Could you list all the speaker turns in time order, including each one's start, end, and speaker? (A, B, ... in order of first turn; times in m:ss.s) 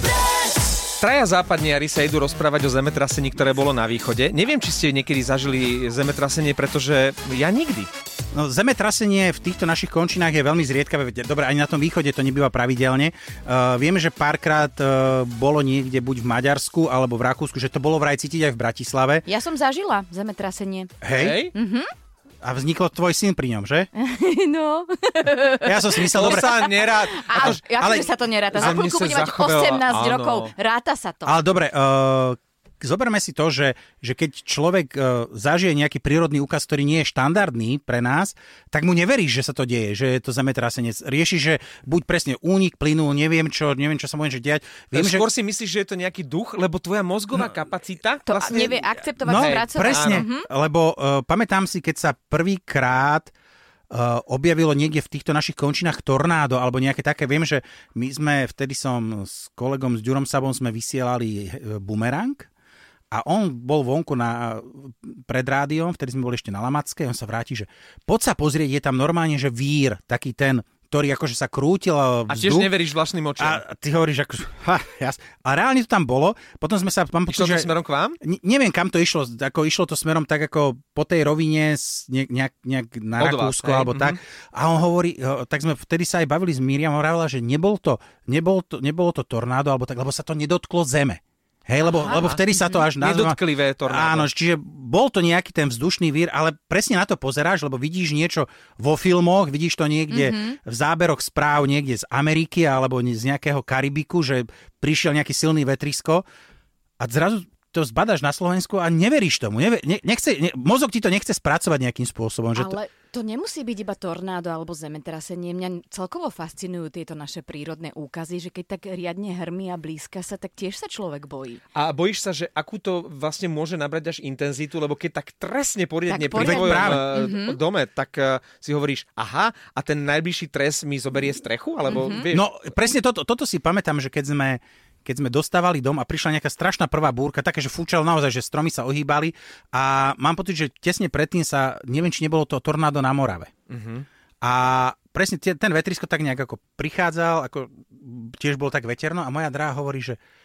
0:01.0-0:07.9 A
0:08.3-0:19.2 B
0:19.2-0:20.9 C
0:21.0-0:21.5 B
0:21.2-0:21.5 A
0:21.5-0:21.9 C
0:22.4-0:23.9 B
0:23.9-0:31.4 C
0:25.6-0:26.6 B
0:26.1-0:30.5 A
0:27.3-0:28.1 B
0:31.2-0:45.3 B
0:44.9-0:50.2 A
0:48.2-0:50.5 C
0:49.2-0:53.3 B
0:53.9-1:02.5 B
1:03.1-1:12.7 B
1:12.3-1:13.6 A
1:13.4-1:17.7 B
1:17.3-1:18.2 A
1:18.2-1:46.2 B
1:23.2-1:24.2 A
1:32.0-1:32.8 C
1:32.0-1:32.4 A
1:33.0-1:34.3 A
1:40.1-1:40.6 C
1:47.0-1:52.8 B
1:52.5-2:01.6 C
2:01.7-2:12.5 A
2:06.1-2:07.6 C
2:06.3-2:07.2 B
2:11.9-2:12.2 C
2:12.2-2:23.5 B
2:23.7-2:24.0 A
2:24.4-2:30.2 B